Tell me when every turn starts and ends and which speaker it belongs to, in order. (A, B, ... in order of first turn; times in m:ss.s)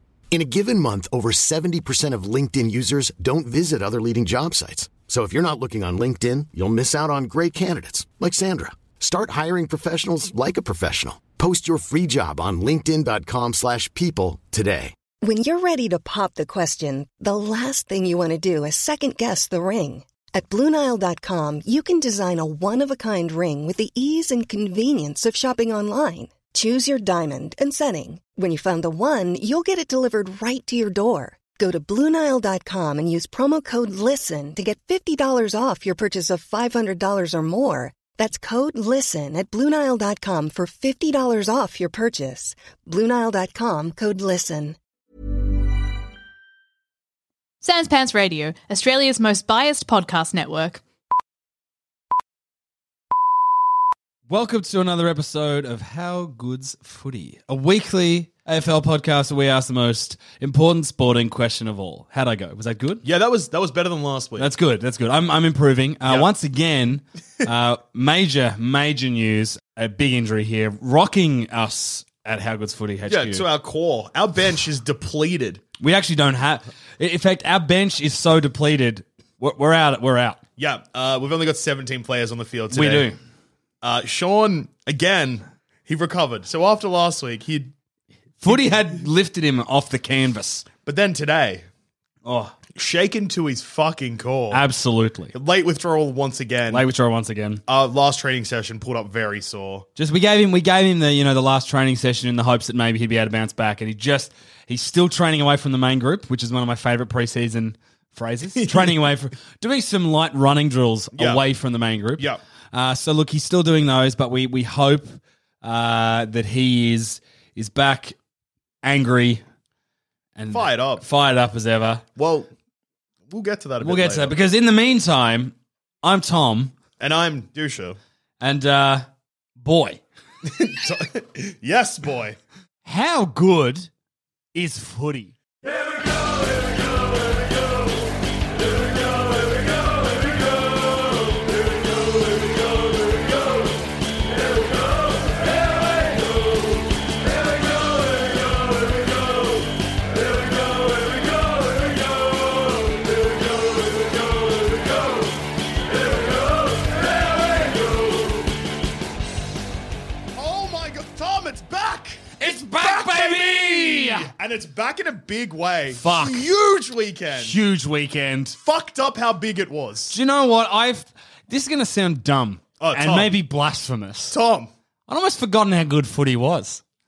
0:00.3-0:14.9 A
0:15.2-0:44.8 B
0:47.6-0:50.8 C
0:54.3-1:03.0 D
1:03.0-1:04.5 E
1:04.4-1:13.4 D
1:13.1-1:15.6 E
1:15.8-1:20.4 D
1:20.6-1:23.1 E
1:22.7-1:23.2 D
1:23.8-1:27.7 E
1:28.4-1:30.6 D
1:30.8-1:31.6 E
1:32.2-1:32.6 D
1:32.7-1:34.6 E
1:34.5-1:35.3 D
1:35.3-1:36.8 E
1:36.7-1:37.6 D
1:37.7-1:39.8 E
1:40.0-1:58.1 D
1:48.6-1:48.9 E
1:51.2-1:51.4 E
1:58.8-1:59.4 D
2:00.4-2:02.0 D
2:00.5-2:01.0 E
2:02.2-2:02.5 E
2:03.3-2:04.3 E
2:03.8-2:06.7 D
2:07.0-2:08.0 E
2:08.4-2:09.0 D
2:09.6-2:10.0 D
2:10.4-2:12.4 E
2:12.8-2:13.9 D
2:14.5-2:15.3 D
2:40.3-2:47.6 E
2:42.4-2:44.3 D
2:46.0-2:46.4 D
2:47.4-2:48.6 D
2:48.6-2:50.2 E
2:50.1-2:54.4 D
2:52.8-2:53.3 E
2:54.3-2:54.7 E
2:55.1-2:56.8 D